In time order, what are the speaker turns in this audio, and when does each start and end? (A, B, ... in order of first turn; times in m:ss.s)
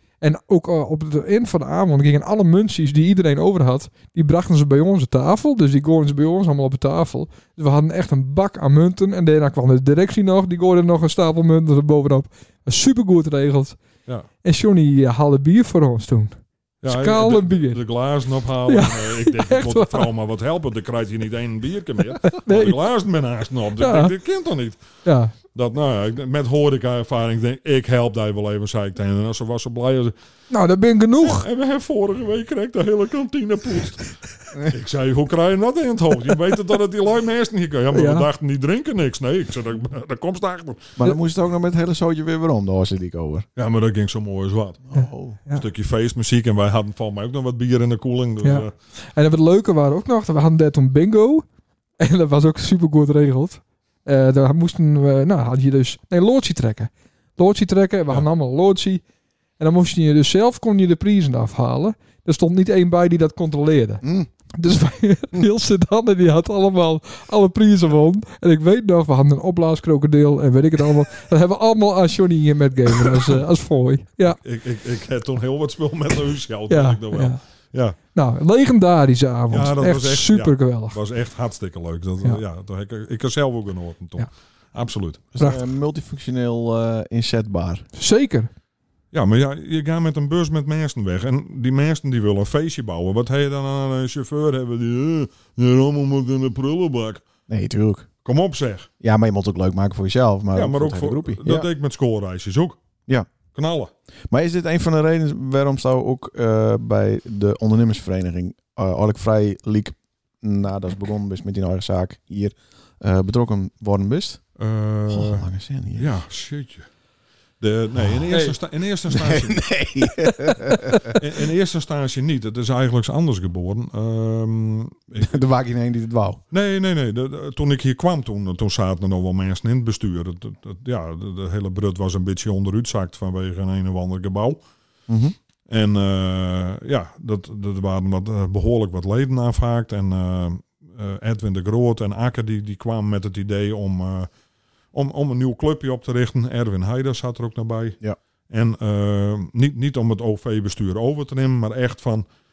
0:00.2-0:13.8 A
0:14.4-0:17.8 A
0:16.8-0:24.8 B
0:18.6-0:20.1 A
0:22.2-0:22.8 A
0:23.8-0:24.1 A
0:25.0-0:25.3 A
0:25.5-0:30.1 B
0:30.5-0:31.5 A
0:31.2-0:40.9 B
0:37.9-0:38.3 A
0:41.0-0:43.5 C
0:43.6-0:44.8 B
0:44.8-0:45.4 C
0:44.9-0:45.6 A
0:45.5-0:48.7 B
0:48.4-0:51.4 A
0:52.0-0:59.0 A
0:59.6-1:04.0 A
1:04.0-1:04.3 C
1:04.5-1:14.4 A
1:14.3-1:18.0 B
1:16.7-1:17.4 A
1:18.1-1:21.0 A
1:19.5-1:25.3 B
1:25.3-1:27.8 C
1:28.0-1:28.5 A
1:29.1-1:37.2 B
1:37.5-1:38.1 C
1:38.2-1:38.9 B
1:39.0-1:41.7 C
1:40.5-1:42.8 B
1:43.5-1:43.9 B
1:44.3-1:54.4 C
1:54.6-1:56.9 B
1:55.1-1:56.1 C
1:57.6-1:59.8 B
1:57.9-1:58.6 C
1:59.1-2:01.2 C
2:00.5-2:00.7 A
2:01.0-2:05.4 B
2:05.2-2:06.4 C
2:06.5-2:14.6 B
2:15.1-2:15.3 C
2:15.7-2:24.3 B
2:24.9-2:28.0 B
2:28.5-2:32.2 B